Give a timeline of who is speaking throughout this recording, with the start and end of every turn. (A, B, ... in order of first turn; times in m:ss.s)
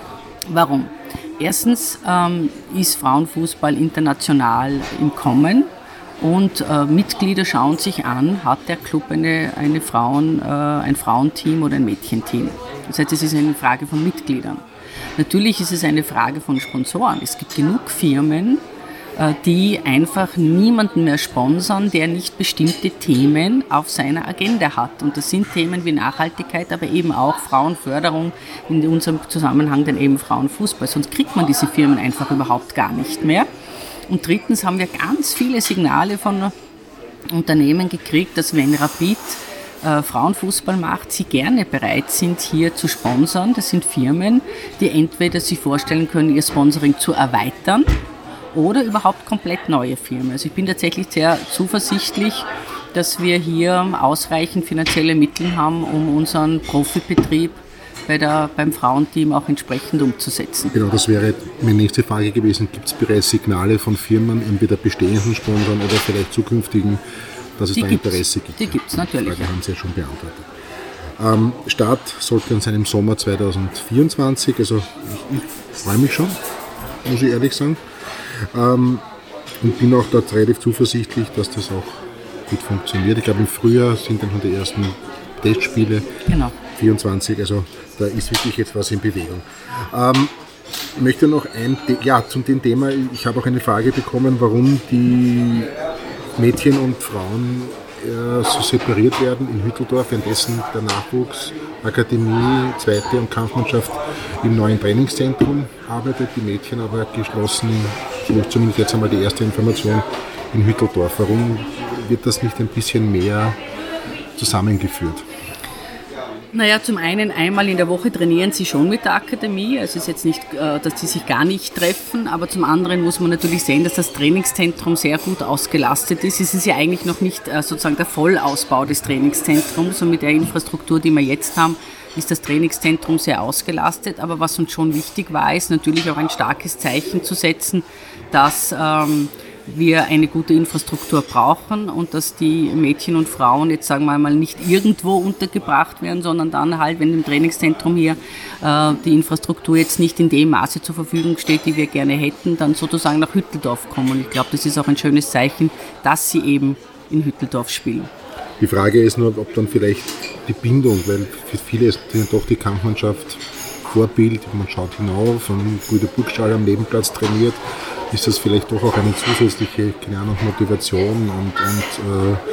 0:00.5-0:14.6 A
0:15.2-0:18.6 A
0:19.2-0:33.5 A
0:34.1-0:36.5 A
0:37.3-0:47.9 A
0:48.5-1:00.7 A
1:00.7-1:07.0 B
1:07.6-1:10.5 B
1:07.8-1:09.5 A
1:11.2-1:16.4 B
1:17.0-1:19.0 B
1:19.6-1:26.1 B
1:26.3-1:26.6 A
1:26.7-1:30.3 B
1:31.0-1:35.7 B
1:36.4-1:53.6 B
1:54.4-1:55.2 B
1:56.5-2:38.1 A
2:38.6-2:47.6 B
2:48.1-2:52.4 B